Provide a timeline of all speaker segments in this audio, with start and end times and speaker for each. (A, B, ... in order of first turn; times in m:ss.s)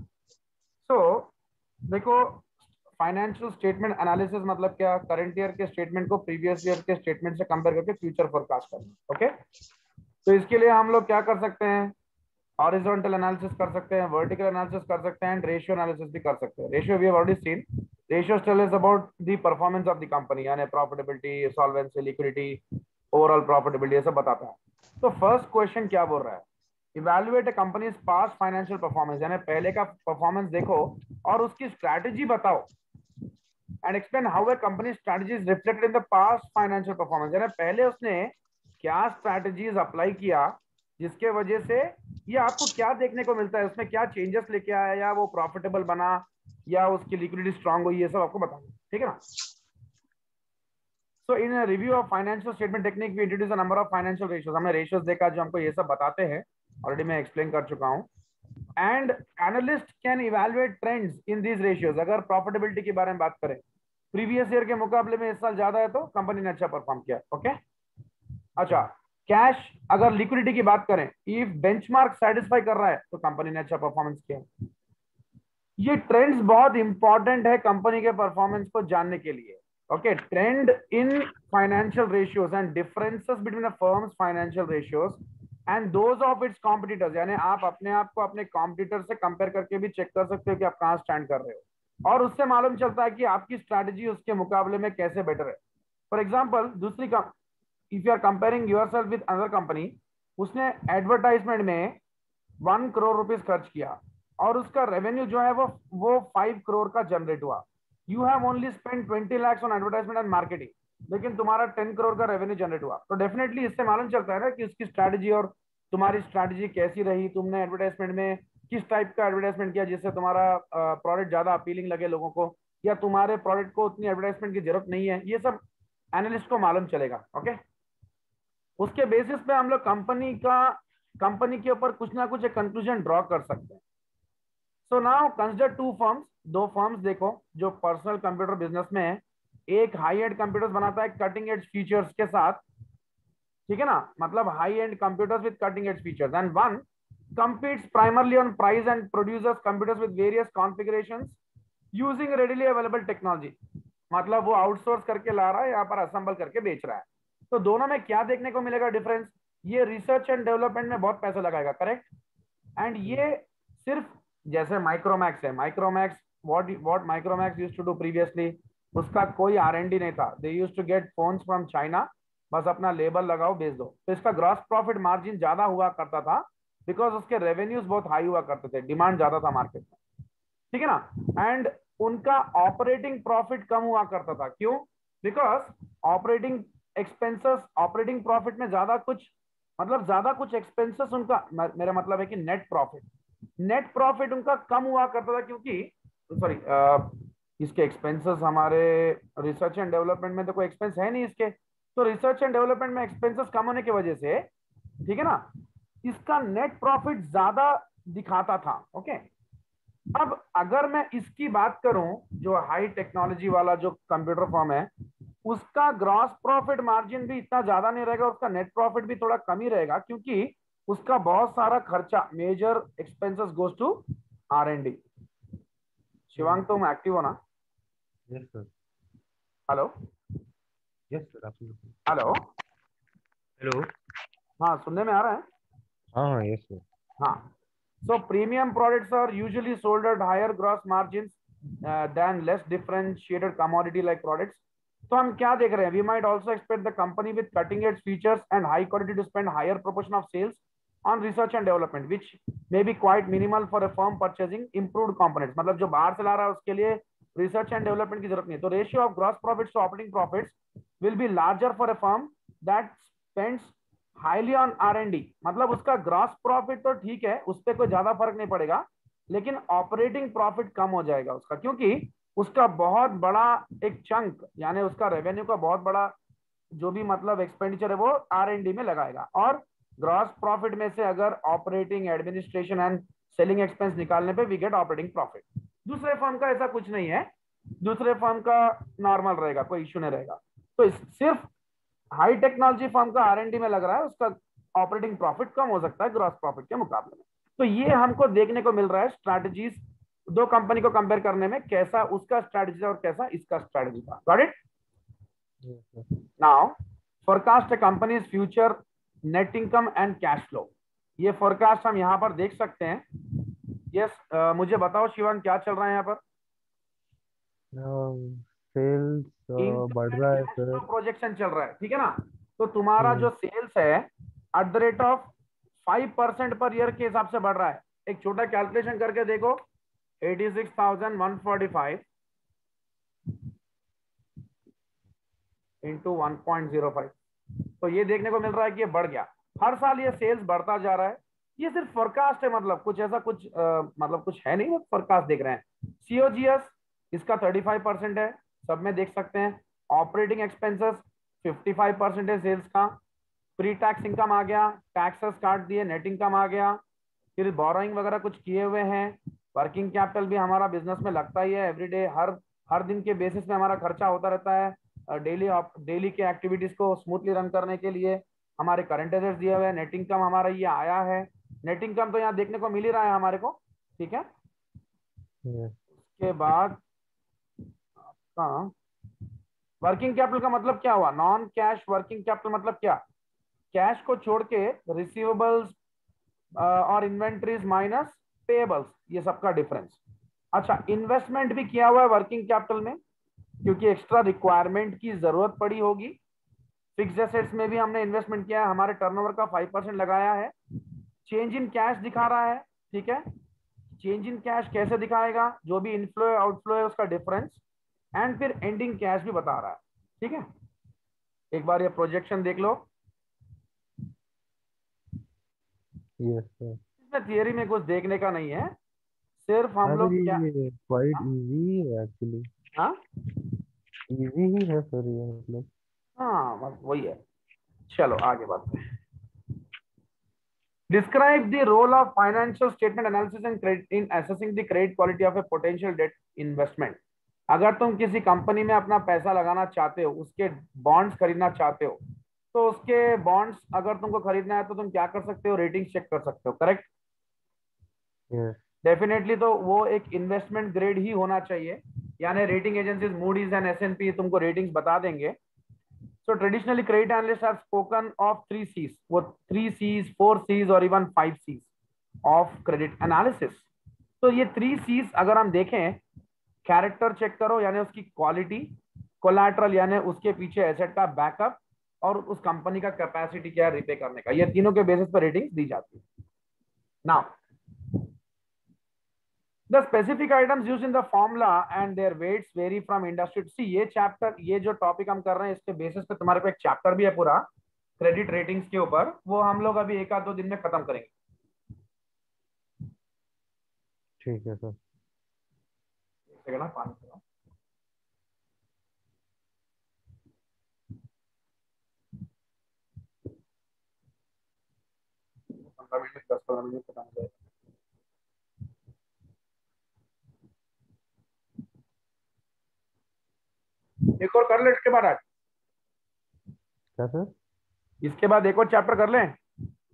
0:00.8-0:01.3 A
0:01.9-0:09.3 A
0:10.2-0:11.9 A
0:12.6-0:22.6 A
0:23.1-0:32.7 A
0:33.8-0:49.2 A
0:51.2-0:58.1 A
0:58.8-1:03.6 A
1:04.1-1:07.6 A
1:08.6-1:14.4 A
1:15.8-1:35.6 A
1:36.1-1:37.3 A
1:37.9-1:42.0 A
1:42.6-2:05.6 A
2:06.1-2:07.6 A
2:08.8-2:13.8 A
2:14.8-2:22.6 A
2:23.7-2:26.8 A
2:27.4-2:31.4 A
2:31.9-2:33.5 A
2:34.1-2:42.1 A
2:42.8-3:00.0 A
3:00.7-3:13.0 A
3:13.6-3:24.5 A
3:25.0-3:25.4 A
3:26.0-3:29.2 A
3:30.1-3:34.9 A
3:35.4-3:45.0 A
3:46.3-3:47.4 A
3:46.4-3:46.6 B
3:48.3-3:48.7 B
3:51.1-3:52.0 B
3:52.1-3:52.5 A
3:53.6-3:53.9 B
3:54.6-3:55.4 A
3:56.1-3:56.8 B
3:57.2-3:57.5 A
3:58.0-4:36.1 A
4:36.8-4:47.3 A
4:47.8-4:51.5 A
4:52.2-4:59.8 A
5:00.3-5:04.5 A
5:05.6-5:06.0 B
5:06.4-5:06.7 A
5:07.2-5:13.0 A
5:13.9-5:16.2 A
5:17.7-5:20.8 B
5:19.6-5:25.3 A
5:23.0-5:23.3 B
5:25.8-5:29.6 A
5:30.2-5:32.0 A
5:35.8-5:37.1 A
5:37.8-5:52.9 A
5:53.6-5:56.8 A
5:57.4-6:14.2 A
6:15.4-6:15.7 B
6:16.0-6:16.8 A
6:18.3-6:18.7 A
6:19.8-6:23.0 A
6:23.7-6:25.8 A
6:26.6-6:30.0 A
6:30.5-6:33.0 A
6:33.6-6:36.2 A
6:37.0-6:40.5 A
6:41.2-6:43.2 A
6:44.0-6:47.6 A
6:48.2-6:50.4 A
6:51.5-6:52.9 A
6:56.2-6:56.8 B
6:57.0-6:58.7 A
6:59.4-7:00.4 A
6:59.8-7:02.5 B
7:04.1-7:05.7 B
7:06.2-7:07.2 A
7:07.9-7:08.9 A
7:10.9-7:17.0 A
7:17.5-7:22.0 A
7:22.5-7:26.9 A
7:28.3-7:28.6 B
7:28.8-7:35.3 A
7:36.2-7:41.7 A
7:42.2-7:43.7 A
7:44.2-7:46.0 A
7:46.6-7:56.0 A
7:57.0-7:57.3 A
7:59.7-8:07.4 A
8:08.0-8:11.1 A
8:14.2-8:14.8 B
8:16.3-8:17.2 A
8:25.6-8:27.3 A
8:34.2-8:35.2 A
8:37.0-8:37.3 B
8:38.0-8:39.4 A